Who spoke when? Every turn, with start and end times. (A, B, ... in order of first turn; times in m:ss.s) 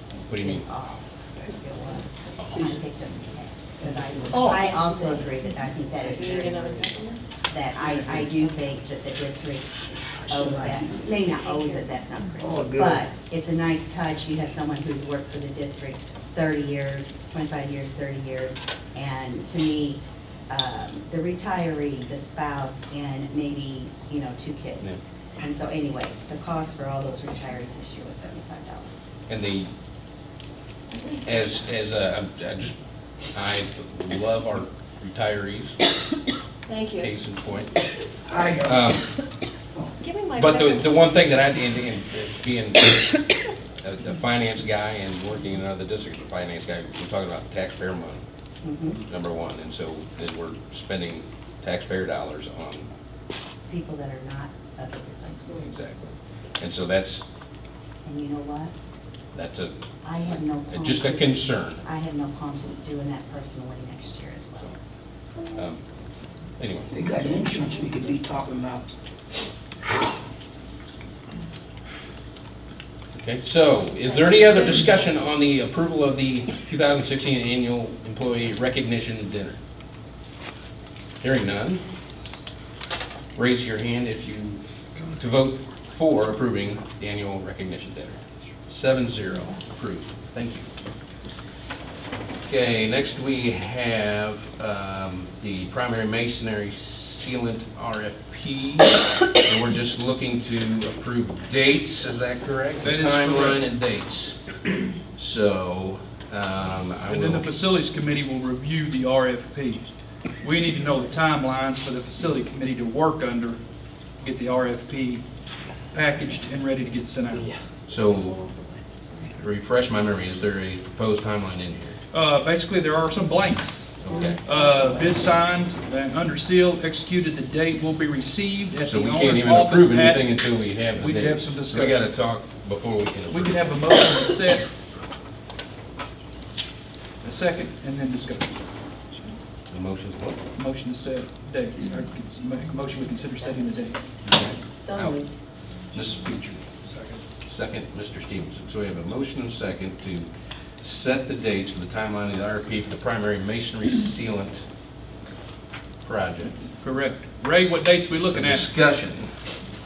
0:00.3-0:00.6 A
0:00.4-0:07.0 B
0:02.4-0:02.6 A
0:04.3-0:05.0 C
0:06.0-0:07.2 D
0:07.5-0:28.9 B
0:07.8-0:08.3 C
0:10.1-0:11.1 C
0:11.3-0:11.8 D
0:12.4-0:13.0 C
0:29.3-0:29.7 A
0:30.9-0:31.6 D
0:31.2-0:32.8 A
0:33.3-0:35.8 A
0:36.7-0:37.1 D
0:37.0-0:37.7 A
0:38.3-0:38.9 C
0:38.6-0:39.0 A
0:40.0-0:41.0 D
0:40.4-0:43.2 A
0:43.8-0:48.2 A
0:48.6-0:49.0 B
0:49.0-0:52.9 A
0:53.7-0:55.8 B
0:55.3-0:57.2 A
0:58.0-0:58.7 B
0:59.3-1:01.8 A
1:00.0-1:04.8 B
1:05.5-1:05.8 A
1:06.6-1:06.9 A
1:06.9-1:08.9 C
1:13.1-1:19.6 A
1:14.0-1:15.1 D
1:21.2-1:21.8 A
1:23.3-1:24.6 A
1:25.1-1:30.7 A
1:32.5-1:44.4 A
1:42.8-1:43.7 E
1:45.2-1:47.5 A
1:47.1-1:49.9 E
1:50.4-1:53.6 E
1:54.2-1:55.2 E
1:55.9-1:57.5 E
1:57.9-1:58.4 A
1:59.4-2:02.0 A
2:02.1-2:12.1 E
2:04.0-2:04.4 A
2:04.1-2:05.5 B
2:08.8-2:14.1 A
2:13.3-2:14.7 E
2:17.2-2:18.6 E
2:19.7-2:20.4 A
2:20.6-2:24.1 E
2:23.0-2:24.1 B
2:24.2-2:25.2 A
2:24.7-2:25.3 B
2:25.9-2:26.6 A
2:26.8-2:27.2 E
2:27.4-2:30.3 A
2:30.8-2:34.6 A
2:36.0-2:36.7 A
2:36.8-2:38.8 E
2:38.2-2:39.4 A